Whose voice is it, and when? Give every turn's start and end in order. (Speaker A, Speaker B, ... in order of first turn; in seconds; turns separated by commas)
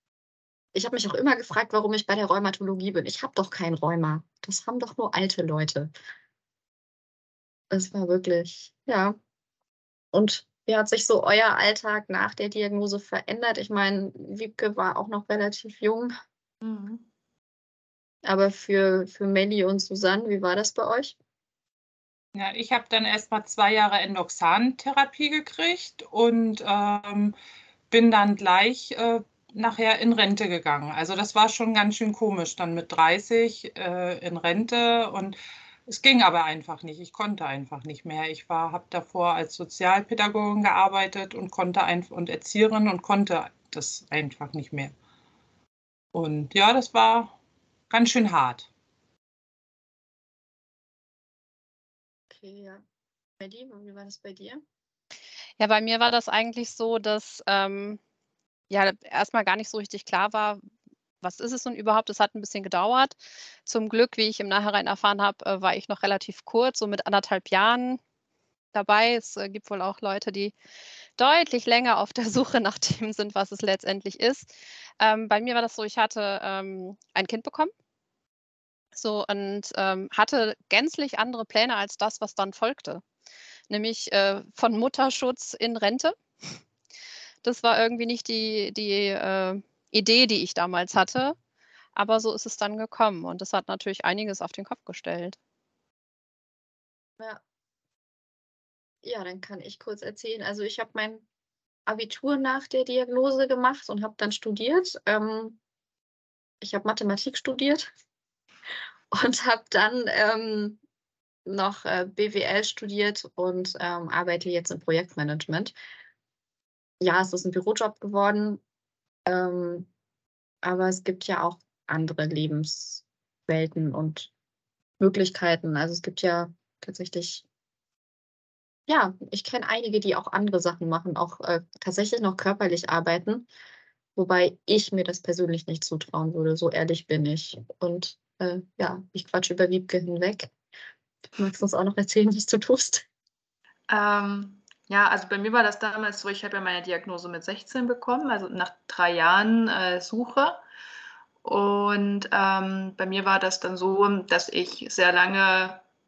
Speaker A: 0.7-5.9, Speaker A: 7.7-9.2, Speaker A: 10.1-16.1, Speaker B: 16.6-17.1, Speaker A: 18.2-21.2, Speaker C: 22.4-27.4, Speaker C: 27.9-44.9, Speaker C: 46.1-47.4, Speaker C: 47.9-48.7, Speaker A: 52.3-52.8, Speaker A: 53.4-54.6, Speaker D: 55.6-58.0, Speaker D: 58.7-60.6, Speaker D: 61.2-63.1, Speaker D: 63.7-68.0, Speaker D: 68.7-70.5, Speaker D: 71.2-77.7, Speaker D: 79.0-83.0, Speaker D: 83.7-86.6, Speaker D: 87.4-91.4, Speaker D: 92.0-95.4, Speaker A: 99.0-101.2, Speaker A: 101.9-105.6, Speaker A: 106.6-107.9, Speaker A: 109.1-110.8, Speaker A: 111.5-115.8, Speaker A: 117.0-118.6, Speaker A: 119.3-119.9, Speaker A: 120.6-124.3, Speaker A: 125.0-127.4, Speaker A: 128.9-133.5, Speaker A: 134.2-140.5, Speaker A: 141.4-143.1, Speaker B: 143.9-150.6, Speaker B: 151.4-155.8